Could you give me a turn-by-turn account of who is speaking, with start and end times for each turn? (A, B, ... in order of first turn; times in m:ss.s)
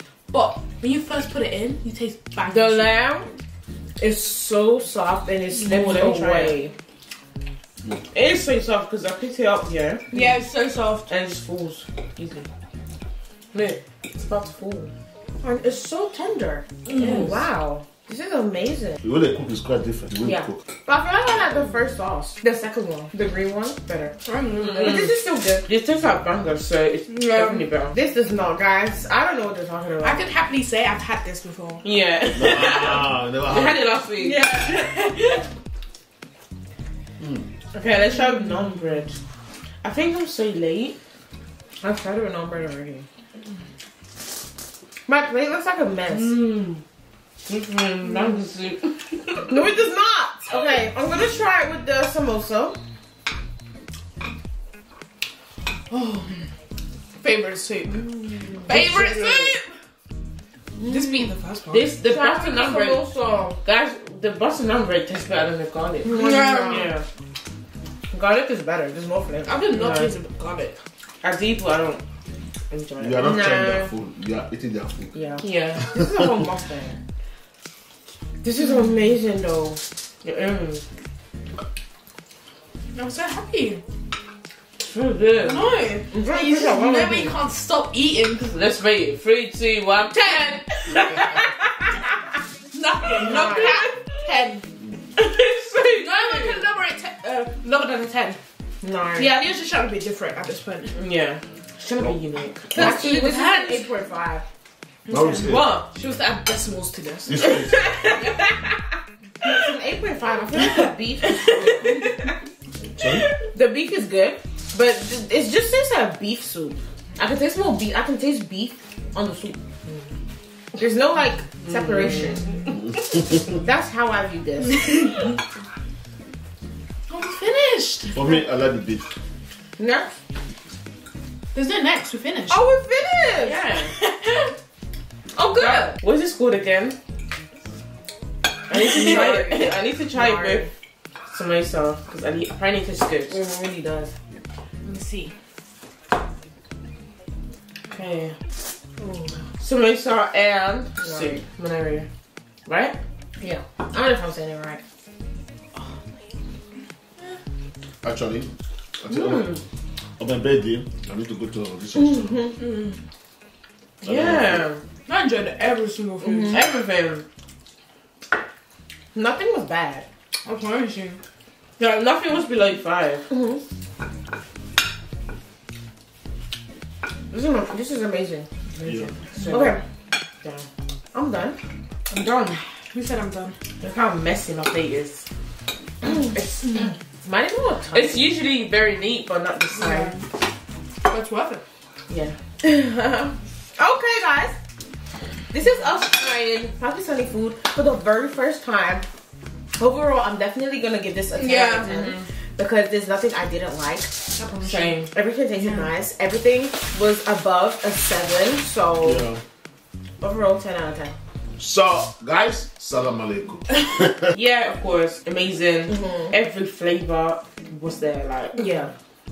0:00.3-0:03.0 A
0:02.5-0:03.3 B
0:04.0-0:06.7 C
0:05.5-0:06.3 A
0:05.8-0:06.6 B
0:08.1-0:10.1 B
0:10.1-0:11.1 A
0:11.1-0:12.5 B
0:13.5-0:14.9 B
0:15.4-0:19.0 C
0:16.8-0:17.4 A
0:17.0-0:17.4 B
0:19.0-0:20.6 D
0:20.2-0:25.6 C
0:24.2-0:25.0 A
0:24.6-0:25.1 B
0:25.6-0:28.0 B
0:27.1-0:27.7 A
0:27.9-0:30.2 C
0:30.0-0:31.8 A
0:31.8-0:34.4 B
0:32.3-0:33.9 D
0:34.2-0:35.4 A
0:37.2-0:37.4 D
0:37.7-0:39.2 B
0:39.8-0:41.0 B
0:41.8-0:43.0 C
0:45.1-0:46.4 C
0:46.1-0:46.8 B
0:47.5-0:49.6 B
0:49.5-0:52.8 C
0:55.9-0:56.5 A
0:57.2-0:58.1 A
0:58.4-0:59.0 C
0:58.6-0:59.7 A
0:58.7-0:59.5 B
1:00.8-1:01.3 C
1:00.9-1:01.9 A
1:01.7-1:03.0 B
1:02.0-1:03.6 C
1:03.6-1:07.0 B
1:06.0-1:07.0 C
1:06.0-1:06.9 A
1:08.1-1:10.1 C
1:09.4-1:10.8 A
1:11.2-1:12.0 B
1:12.7-1:13.4 B
1:13.0-1:15.1 D
1:13.2-1:13.9 C
1:15.1-1:17.0 C
1:15.4-1:15.9 B
1:16.0-1:16.2 D
1:18.4-1:19.8 C
1:20.2-1:20.8 B
1:22.9-1:23.8 A
1:24.8-1:25.7 B
1:25.4-1:28.5 A
1:26.1-1:27.3 C
1:28.4-1:31.9 B
1:30.1-1:30.6 A
1:32.7-1:34.6 A
1:33.2-1:33.8 C
1:33.3-1:33.9 B
1:35.2-1:36.6 B
1:36.0-1:38.4 A
1:38.8-1:39.3 C
1:39.1-1:41.0 A
1:40.9-1:43.2 B
1:42.7-1:43.9 A
1:42.7-1:44.4 C
1:45.1-1:48.5 A
1:45.1-1:45.7 D
1:45.4-1:45.9 B
1:47.2-1:47.9 D
1:47.7-1:48.2 B
1:49.4-1:52.3 C
1:50.6-1:50.8 A
1:51.4-1:52.3 A
1:53.0-1:53.2 D
1:53.5-1:59.6 C
2:00.8-2:02.7 C
2:01.6-2:02.6 B
2:03.4-2:05.1 C
2:04.6-2:05.4 A
2:07.1-2:08.4 A
2:08.1-2:09.0 D
2:09.8-2:10.1 C
2:11.5-2:12.6 A
2:12.5-2:13.6 C
2:13.4-2:13.9 B
2:13.5-2:14.5 A
2:15.5-2:15.9 A
2:15.5-2:17.0 B
2:15.6-2:15.9 C
2:18.7-2:20.7 B
2:18.7-2:20.7 C
2:18.8-2:19.2 A
2:21.3-2:23.4 B
2:23.3-2:24.1 C
2:24.8-2:25.3 A
2:27.9-2:28.4 B
2:29.6-2:32.1 B
2:31.0-2:31.4 C
2:32.6-2:33.0 B
2:33.4-2:34.8 C
2:38.0-2:39.5 D
2:39.1-2:39.6 B
2:40.2-2:42.5 D
2:42.0-2:42.6 C
2:42.6-2:43.0 A
2:44.0-2:44.8 B
2:44.0-2:44.6 D
2:45.0-2:46.6 A
2:46.2-2:47.2 B
2:46.2-2:46.6 C
2:49.1-2:50.0 C
2:50.4-2:51.2 A
2:51.8-2:53.3 B
2:53.3-2:53.6 C
2:57.3-2:58.5 C
2:58.8-2:59.8 B
2:58.8-2:59.1 D
2:59.4-2:59.8 C
3:01.1-3:01.6 C
3:02.1-3:02.6 B
3:02.9-3:03.6 A
3:03.8-3:05.2 B
3:06.0-3:06.9 B
3:07.2-3:08.3 C
3:07.9-3:10.1 B
3:09.8-3:10.3 A
3:11.1-3:11.6 A
3:12.1-3:12.4 B
3:12.6-3:14.6 C
3:15.5-3:19.0 C
3:19.8-3:24.1 C
3:21.3-3:21.9 A
3:21.8-3:22.3 B
3:24.4-3:25.0 A
3:24.6-3:25.1 B
3:25.1-3:29.2 C
3:25.6-3:25.9 A
3:29.0-3:29.4 D
3:30.2-3:31.1 C
3:31.6-3:34.2 D
3:34.3-3:38.6 B
3:35.9-3:36.3 C
3:38.6-3:38.9 C